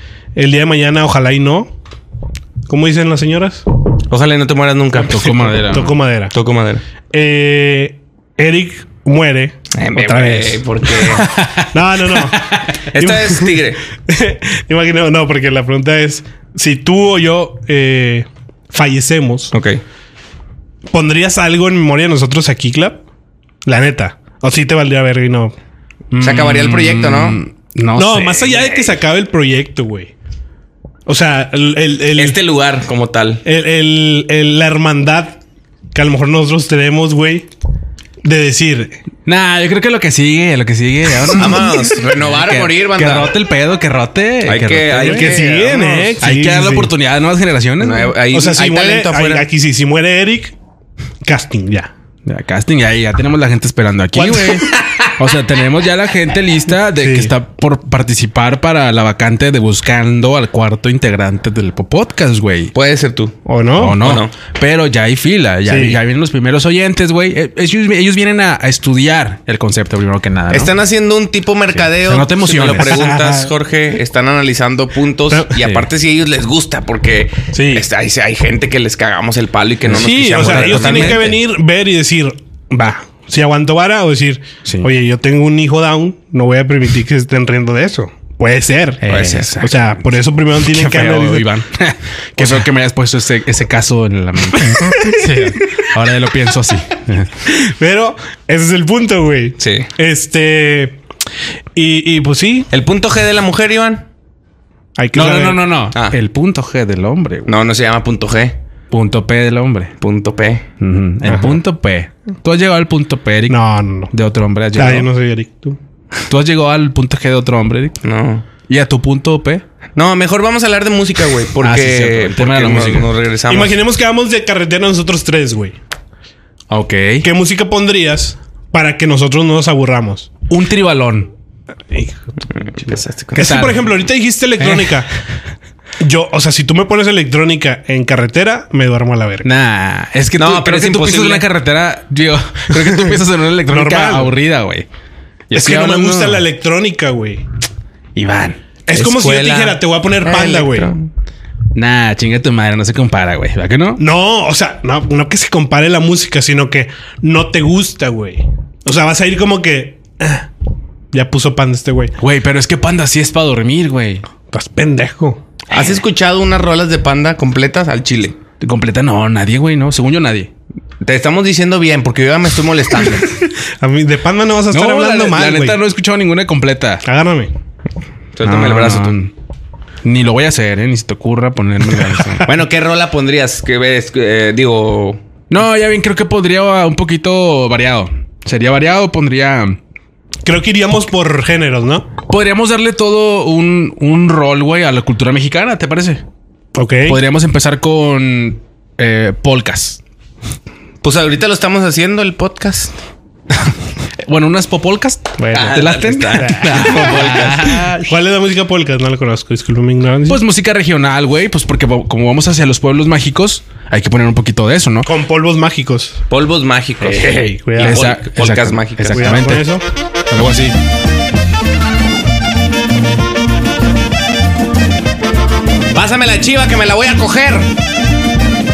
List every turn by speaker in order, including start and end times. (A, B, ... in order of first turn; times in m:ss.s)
0:00.4-0:01.7 A
0:02.7-0:03.6 A
0:04.1-0:05.2 B
0:05.0-0:05.9 C
0:05.1-0:06.3 A
0:06.3-0:06.8 B
0:07.1-0:10.9 A
0:09.7-0:11.3 B
0:11.1-0:12.7 C
0:11.7-0:19.5 A
0:12.9-0:13.8 B
0:19.5-0:19.8 B
0:20.9-0:23.0 A
0:23.6-0:25.5 A
0:26.1-0:28.6 C
0:26.2-0:27.4 B
0:28.0-0:30.1 A
0:31.0-0:32.4 A
0:32.2-0:33.4 B
0:33.4-0:35.4 A
0:35.9-0:37.5 A
0:38.2-0:39.0 A
0:39.2-0:45.4 C
0:41.3-0:43.3 B
0:44.4-0:46.1 B
0:45.0-0:46.9 A
0:46.2-0:48.1 C
0:47.8-0:49.5 B
0:48.3-0:50.5 A
0:51.2-0:51.9 A
0:52.2-1:02.7 C
0:54.1-0:54.6 A
0:57.0-0:57.3 A
1:02.7-1:03.4 B
1:03.4-1:04.0 A
1:03.8-1:10.7 C
1:04.0-1:04.3 B
1:05.7-1:06.0 A
1:10.5-1:21.3 B
1:11.7-1:13.1 C
1:12.8-1:13.5 A
1:15.6-1:15.8 C
1:17.5-1:17.8 A
1:19.8-1:21.4 C
1:20.0-1:29.0 A
1:29.0-1:30.0 C
1:29.1-1:29.6 B
1:29.6-1:31.5 A
1:30.6-1:37.4 C
1:34.8-1:35.3 A
1:37.5-1:41.0 A
1:39.6-1:39.9 B
1:41.7-1:42.7 A
1:42.7-1:44.0 B
1:45.0-1:45.7 A
1:45.1-1:47.5 C
1:47.4-1:48.6 B
1:48.9-1:49.9 C
1:50.0-1:50.6 B
1:50.8-1:53.6 C
1:51.2-1:51.6 A
1:53.5-1:54.1 A
1:54.1-1:55.1 C
1:54.7-1:55.8 A
1:56.3-1:58.0 C
1:58.0-1:58.4 B
1:58.7-1:59.6 C
2:00.0-2:03.8 B
2:01.6-2:03.1 C
2:03.5-2:05.8 A
2:06.7-2:07.3 C
2:07.2-2:10.3 A
2:10.5-2:11.3 C
2:12.6-2:13.5 B
2:13.3-2:15.1 A
2:13.4-2:13.8 C
2:14.6-2:15.0 C
2:16.0-2:19.5 A
2:19.4-2:24.9 C
2:20.4-2:21.4 B
2:23.7-2:24.3 A
2:25.5-2:26.4 C
2:25.5-2:27.4 A
2:28.2-2:28.6 C
2:28.9-2:30.9 A
2:28.9-2:31.1 B
2:31.7-2:34.0 C
2:34.0-2:40.5 A
2:41.1-2:42.1 A
2:42.2-2:44.2 C
2:44.5-2:45.4 A
2:45.7-2:48.4 B
2:48.6-2:50.5 C
2:51.0-2:53.3 B
2:53.8-2:55.8 A
2:54.7-2:57.0 C
2:57.0-2:57.5 A
2:58.4-2:59.2 B
2:58.4-2:59.3 C
3:00.0-3:02.5 C
3:02.4-3:05.2 B
3:05.5-3:09.8 C
3:10.4-3:12.1 A
3:12.3-3:16.2 C
3:16.7-3:17.2 A
3:17.0-3:20.0 C
3:21.0-3:22.9 B
3:24.2-3:28.1 C
3:25.4-3:25.8 A
3:25.5-3:27.8 B
3:26.4-3:27.1 A
3:28.0-3:30.4 A
3:30.3-3:35.1 C
3:35.0-3:36.2 A
3:36.3-3:39.4 B
3:37.0-3:38.2 A
3:37.8-3:39.7 C
3:39.1-3:39.8 A
3:40.3-3:40.8 C
3:45.9-3:47.7 B